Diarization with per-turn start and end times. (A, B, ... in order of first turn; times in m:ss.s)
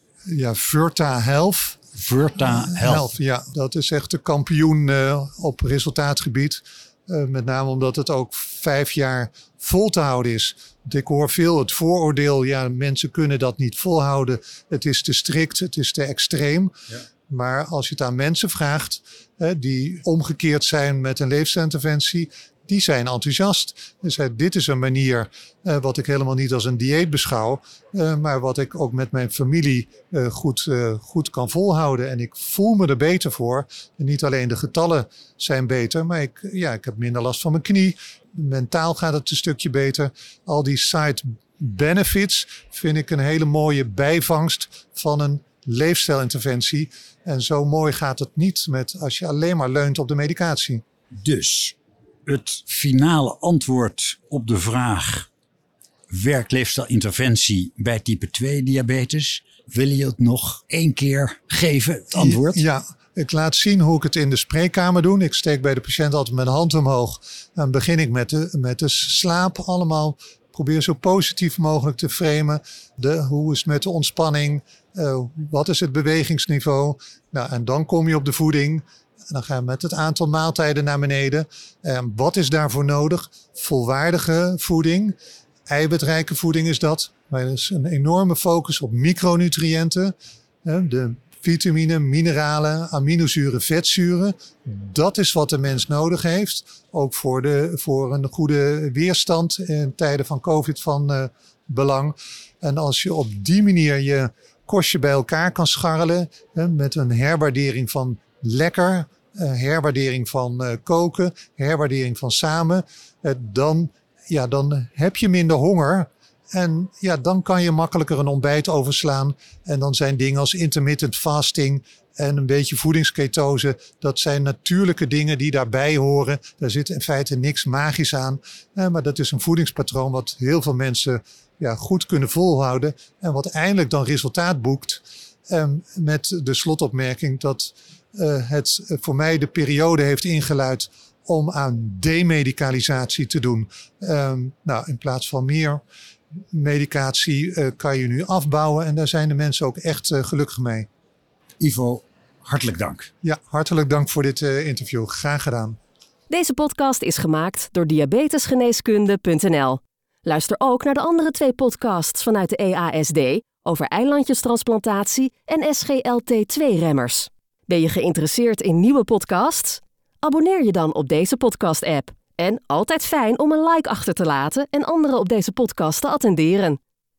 0:00.3-0:01.8 A
0:01.9-0:03.1 B
0:02.4-0:16.8 A
0:17.3-0:50.8 A
0:51.2-0:55.3 B
0:56.1-1:02.6 B
1:02.1-1:25.2 A
1:25.7-1:30.1 A
1:30.6-2:25.8 A
2:26.5-2:30.9 A
2:31.6-2:33.1 B
2:33.2-2:35.8 A
2:36.3-2:56.8 C